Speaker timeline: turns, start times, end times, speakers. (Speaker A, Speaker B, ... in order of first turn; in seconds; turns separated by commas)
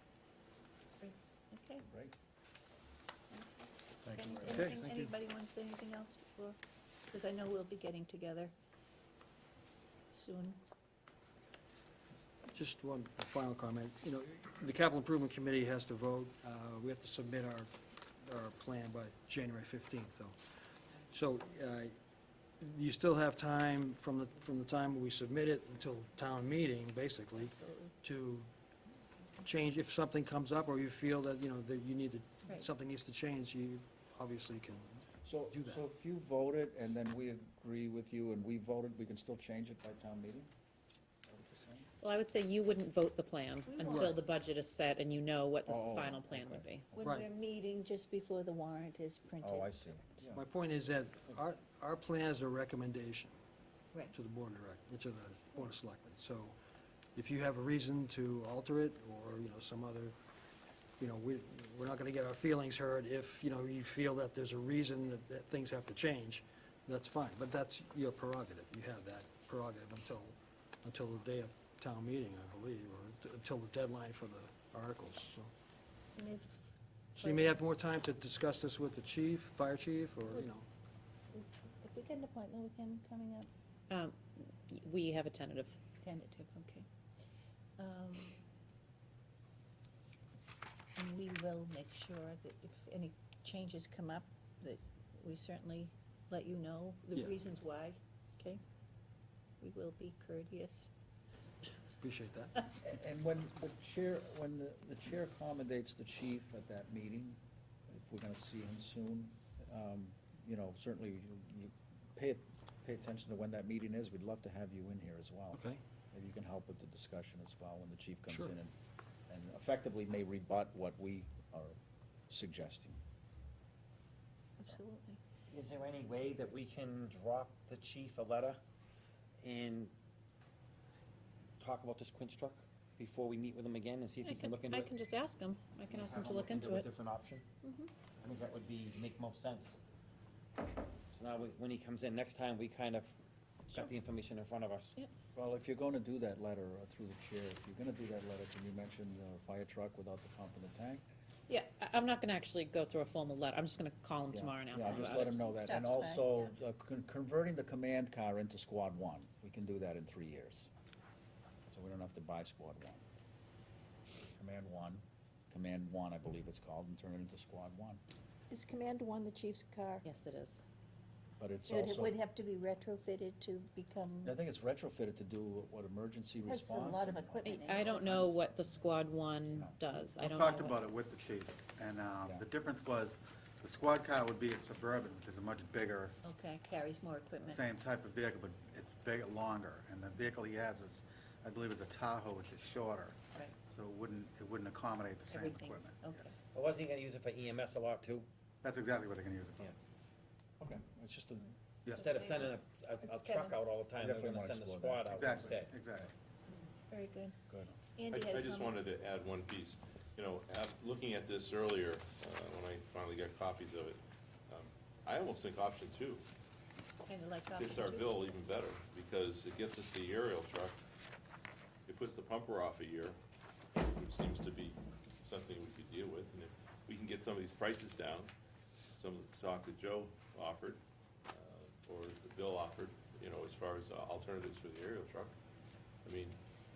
Speaker A: 1.0-1.9, Speaker B: 1.9-2.1, Speaker A: 3.3-6.6, Speaker B: 4.2-4.8, Speaker C: 4.4-5.2, Speaker A: 7.1-8.5, Speaker A: 10.1-10.6, Speaker C: 12.5-20.4, Speaker C: 21.1-22.0, Speaker C: 22.6-28.5, Speaker C: 29.4-35.8, Speaker B: 35.2-40.5, Speaker B: 41.3-41.9, Speaker D: 42.0-46.9, Speaker A: 43.7-44.1, Speaker B: 45.7-47.2, Speaker A: 47.0-49.7, Speaker C: 47.0-47.3, Speaker B: 49.4-50.4, Speaker C: 50.3-53.4, Speaker C: 54.1-56.6, Speaker C: 57.1-60.2, Speaker C: 61.0-75.5, Speaker A: 76.2-77.7, Speaker C: 77.2-80.7, Speaker A: 81.3-83.5, Speaker D: 83.9-85.8, Speaker A: 86.0-86.9, Speaker A: 87.8-88.4, Speaker A: 91.0-98.6, Speaker A: 99.6-100.9, Speaker C: 102.0-102.5, Speaker B: 102.8-118.7, Speaker C: 115.5-115.8, Speaker C: 118.3-118.5, Speaker B: 119.3-121.8, Speaker B: 122.3-123.0, Speaker A: 124.6-125.2, Speaker E: 125.5-128.6, Speaker E: 129.4-129.9, Speaker E: 131.6-134.9, Speaker D: 134.2-136.9, Speaker E: 135.9-137.5, Speaker E: 138.2-139.8, Speaker E: 141.1-143.1, Speaker E: 143.7-144.9, Speaker B: 145.3-151.0, Speaker D: 151.5-155.3, Speaker B: 154.3-160.7, Speaker A: 155.0-156.4, Speaker B: 161.7-163.0, Speaker B: 164.3-168.0, Speaker A: 168.5-170.1, Speaker D: 170.1-170.6, Speaker B: 171.4-172.2, Speaker A: 171.7-174.4, Speaker B: 174.2-177.8, Speaker A: 176.4-178.3, Speaker D: 177.4-180.8, Speaker F: 180.2-186.2, Speaker A: 186.2-187.6, Speaker F: 187.4-196.4, Speaker A: 195.3-196.3, Speaker E: 196.5-198.3, Speaker F: 198.6-199.8, Speaker B: 200.6-201.5, Speaker F: 201.9-202.5, Speaker E: 201.9-205.7, Speaker A: 203.2-203.5, Speaker B: 204.0-205.0, Speaker F: 205.1-206.1, Speaker A: 206.9-207.4, Speaker A: 207.9-208.8, Speaker G: 208.1-216.2, Speaker A: 217.1-218.2, Speaker G: 217.5-220.8, Speaker G: 221.9-223.2, Speaker G: 223.8-228.3, Speaker G: 229.0-235.3, Speaker G: 236.0-236.4